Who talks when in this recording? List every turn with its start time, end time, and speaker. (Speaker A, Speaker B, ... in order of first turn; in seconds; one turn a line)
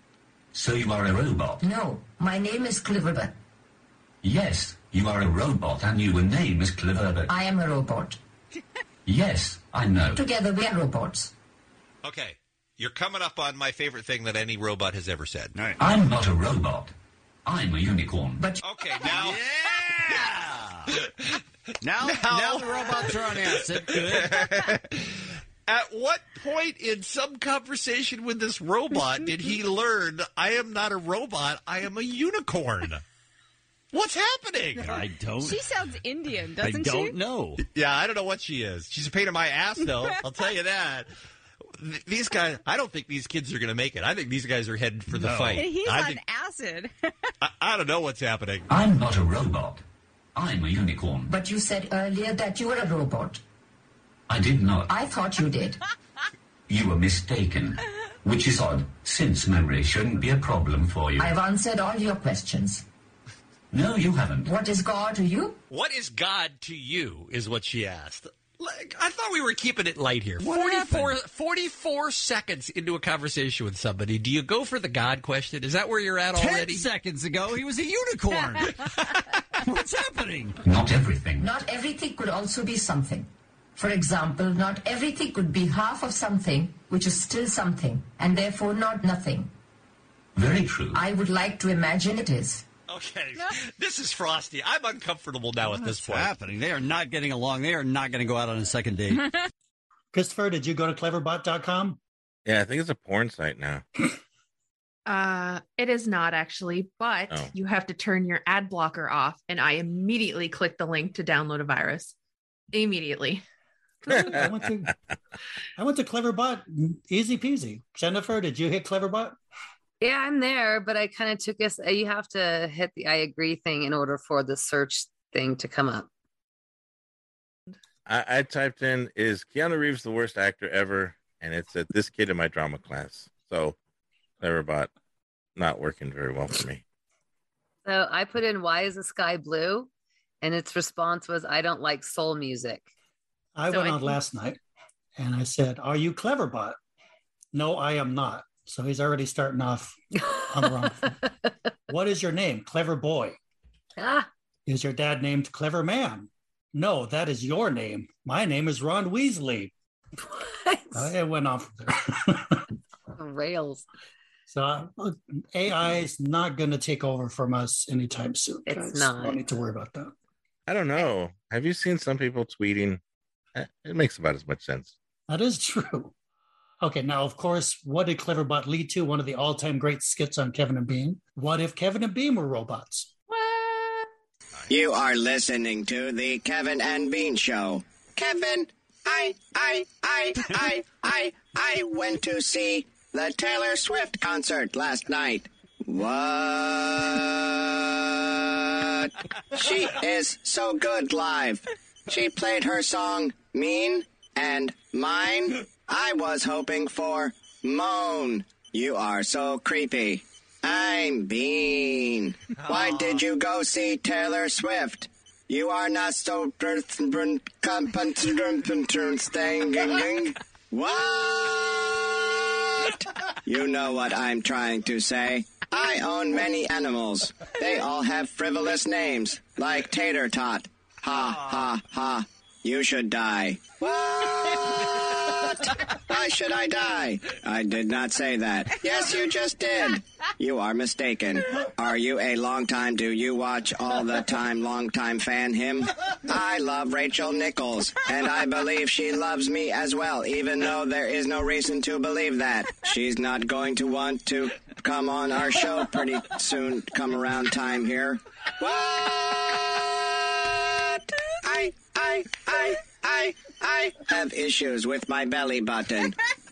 Speaker A: 0.5-1.6
Speaker B: 1.6-3.3
Speaker A: 4.2-7.3
Speaker B: 7.3-8.2
Speaker A: 9.1-10.3
Speaker B: 10.2-11.3
Speaker C: 12.0-15.6
Speaker A: 15.8-16.9
Speaker A: 17.5-18.5
Speaker C: 18.6-19.5
Speaker D: 19.0-20.9
Speaker C: 21.0-21.3
Speaker D: 21.8-24.7
Speaker C: 22.0-25.0
Speaker C: 25.7-33.0
Speaker C: 33.9-35.0
Speaker D: 34.8-35.6
Speaker E: 35.4-37.2
Speaker D: 36.6-37.6
Speaker C: 37.6-41.1
Speaker C: 41.8-46.2
Speaker D: 45.1-45.7
Speaker E: 45.6-46.9
Speaker C: 47.4-48.7
Speaker A: 48.7-49.8
Speaker A: 50.4-51.3
Speaker B: 51.3-53.4
Speaker A: 54.3-54.9
Speaker B: 54.9-55.8
Speaker A: 56.7-61.3
Speaker B: 61.2-62.9
Speaker A: 63.7-64.5
Speaker B: 64.5-65.6
Speaker C: 65.7-76.8
Speaker D: 70.4-71.2
Speaker D: 76.3-78.8
Speaker D: 79.6-80.6
Speaker A: 80.6-81.6
Speaker B: 81.4-89.5
Speaker A: 90.4-91.1
Speaker B: 91.0-92.6
Speaker C: 92.9-96.3
Speaker D: 95.7-99.3
Speaker F: 100.1-102.0
Speaker G: 102.5-103.8
Speaker H: 105.1-112.1
Speaker H: 112.7-113.4
Speaker F: 114.0-114.9
Speaker H: 114.1-114.4
Speaker F: 115.8-119.4
Speaker I: 120.0-126.1
Speaker G: 128.1-133.8
Speaker G: 134.4-134.9
Speaker G: 135.6-136.8
Speaker I: 137.8-139.9
Speaker I: 140.4-142.9
Speaker F: 143.6-144.6
Speaker H: 143.7-144.2
Speaker F: 145.2-146.8
Speaker F: 147.5-151.2
Speaker I: 150.2-150.9
Speaker F: 151.9-153.4
Speaker I: 154.0-154.3
Speaker F: 154.7-159.7
Speaker I: 160.2-161.1
Speaker F: 160.9-162.6
Speaker I: 163.2-163.8
Speaker F: 164.5-170.1
Speaker I: 168.7-169.4
Speaker G: 170.7-173.0
Speaker G: 173.6-174.9
Speaker F: 175.3-176.1
Speaker F: 176.8-183.1
Speaker H: 183.3-184.1
Speaker J: 184.7-266.2
Speaker C: 212.7-213.2